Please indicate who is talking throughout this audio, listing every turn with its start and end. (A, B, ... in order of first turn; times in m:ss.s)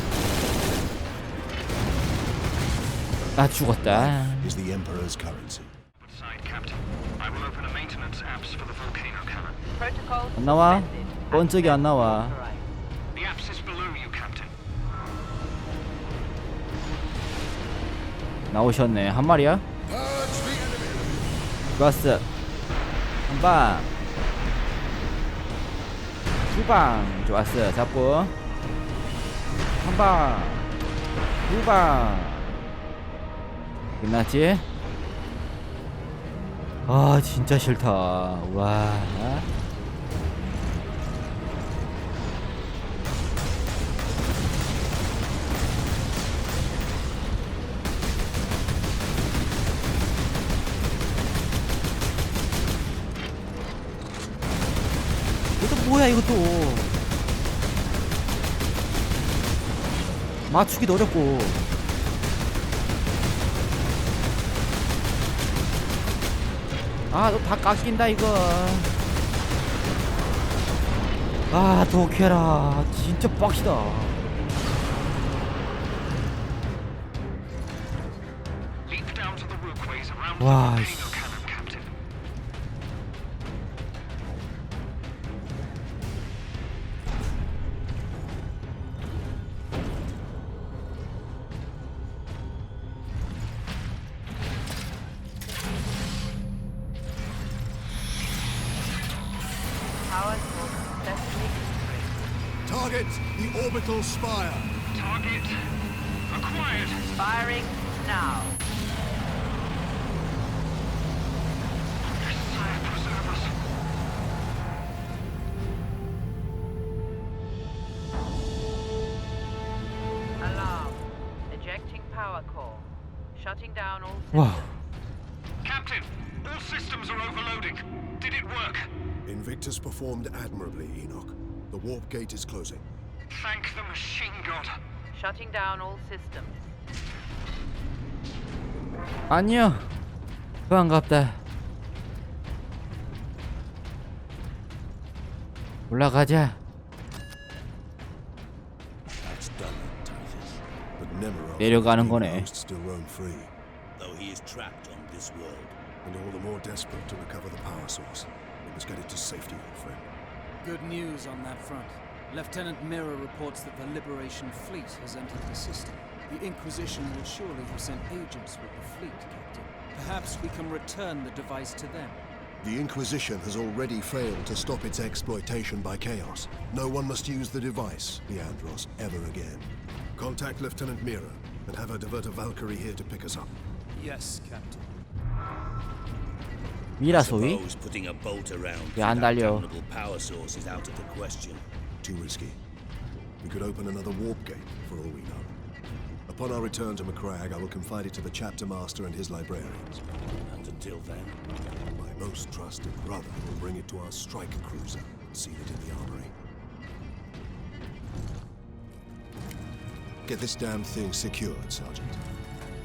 0:03.4-0:04.5 A
0:03.6-0:05.7 B
0:06.0-0:09.6 C
0:09.7-0:12.6 D
0:10.4-0:12.3 A
0:13.1-0:14.5 C
0:18.5-0:19.6 A
0:19.9-0:21.2 B
0:21.8-0:22.2 A
0:23.3-0:23.9 A
0:26.5-0:28.3 A
0:29.8-0:30.6 A
0:31.4-0:32.5 A
0:34.0-0:34.6 A
0:36.9-0:39.4 A
0:55.6-0:56.9 A
1:00.5-1:01.6 A
1:07.1-1:08.9 A
1:11.5-1:14.2 A
1:18.8-1:21.9 C
1:20.4-1:21.2 A
1:40.0-1:42.2 D
1:42.6-1:44.7 B
1:44.9-1:45.6 C
1:46.3-1:47.0 C
1:47.1-1:48.6 D
1:52.1-1:53.5 C
2:00.4-2:04.7 D
2:04.3-2:04.7 A
2:05.6-2:08.9 C
2:09.2-2:12.8 B
2:13.3-2:14.8 C
2:15.1-2:16.7 D
2:19.3-2:19.9 A
2:20.7-2:21.4 A
2:25.9-2:26.6 A
2:29.2-2:30.6 E
2:31.0-2:33.5 B
2:31.6-2:32.5 A
2:34.0-2:35.8 E
2:36.0-2:40.0 B
2:40.6-2:52.2 F
2:52.6-3:03.5 B
3:03.9-3:04.8 F
3:07.0-3:07.6 A
3:07.0-3:11.6 E
3:09.0-3:09.7 A
3:12.0-3:12.6 B
3:13.4-3:15.5 B
3:16.3-3:20.0 B
3:20.5-3:21.4 E
3:21.9-3:26.3 B
3:30.2-3:32.2 B